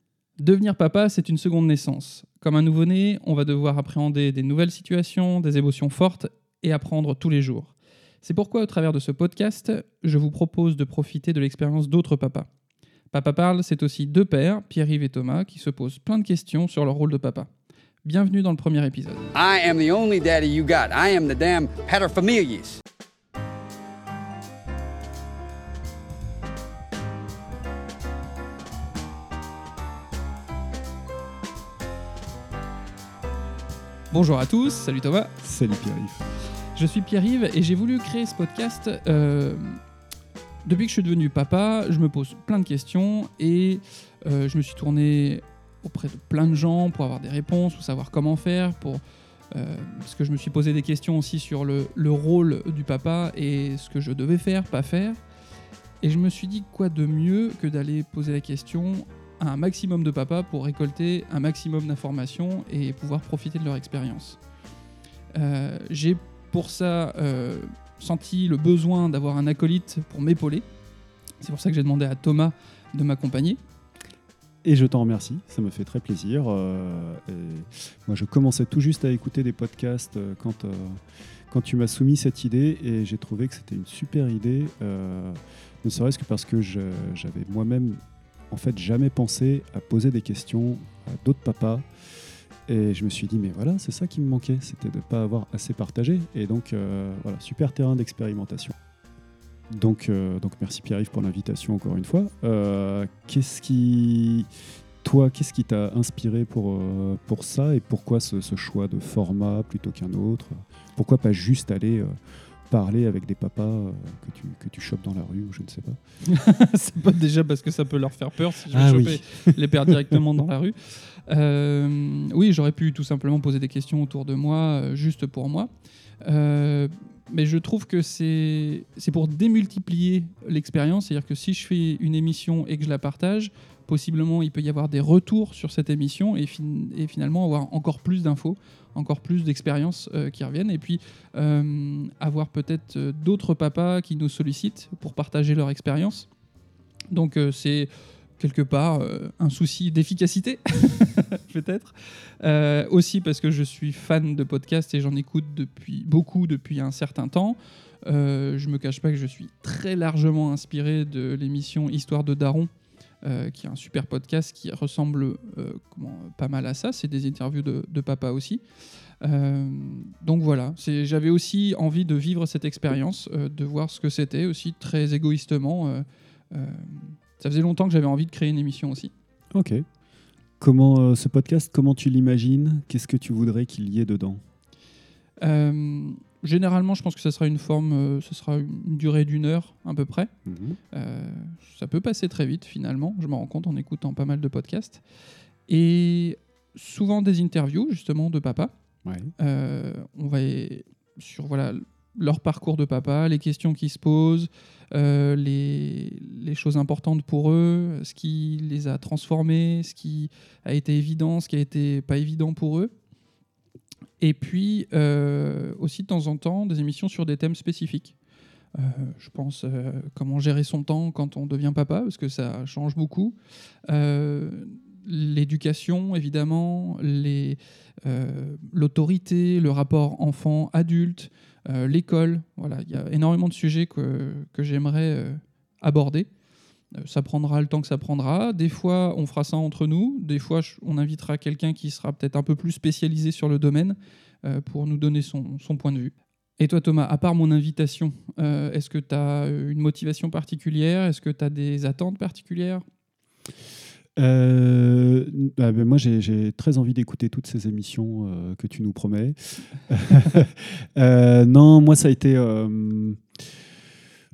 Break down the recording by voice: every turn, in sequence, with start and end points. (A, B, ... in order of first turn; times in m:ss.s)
0:00.4-0:12.5 A
0:13.1-0:17.5 A
0:18.0-0:19.3 A
0:19.3-0:22.8 B
0:34.1-0:35.3 A
0:35.4-0:36.3 C
0:36.7-0:39.8 A
0:40.6-0:49.0 A
0:49.5-0:55.2 A
0:56.0-1:04.4 A
1:05.3-1:10.6 A
1:11.4-1:13.6 A
1:14.6-1:21.0 C
1:21.5-1:28.0 C
1:28.5-1:31.8 C
1:32.7-1:38.7 C
1:39.7-1:44.5 C
1:45.0-1:52.2 C
1:52.7-1:56.0 C
1:56.2-2:05.7 A
1:58.7-2:00.2 C
2:06.2-2:26.3 A
2:27.1-2:42.7 A
2:43.2-2:48.6 A
2:49.2-2:59.1 A
2:59.5-2:59.8 C
3:00.6-3:04.4 C
3:05.4-3:10.3 A
3:10.4-3:10.8 C
3:10.9-3:15.0 A
3:15.7-3:18.7 A
3:19.0-3:19.3 C
3:19.4-3:32.9 A
3:34.2-3:38.1 A
3:38.7-3:43.4 A
3:43.9-3:56.3 A
3:56.9-4:12.8 A
4:14.2-4:23.2 C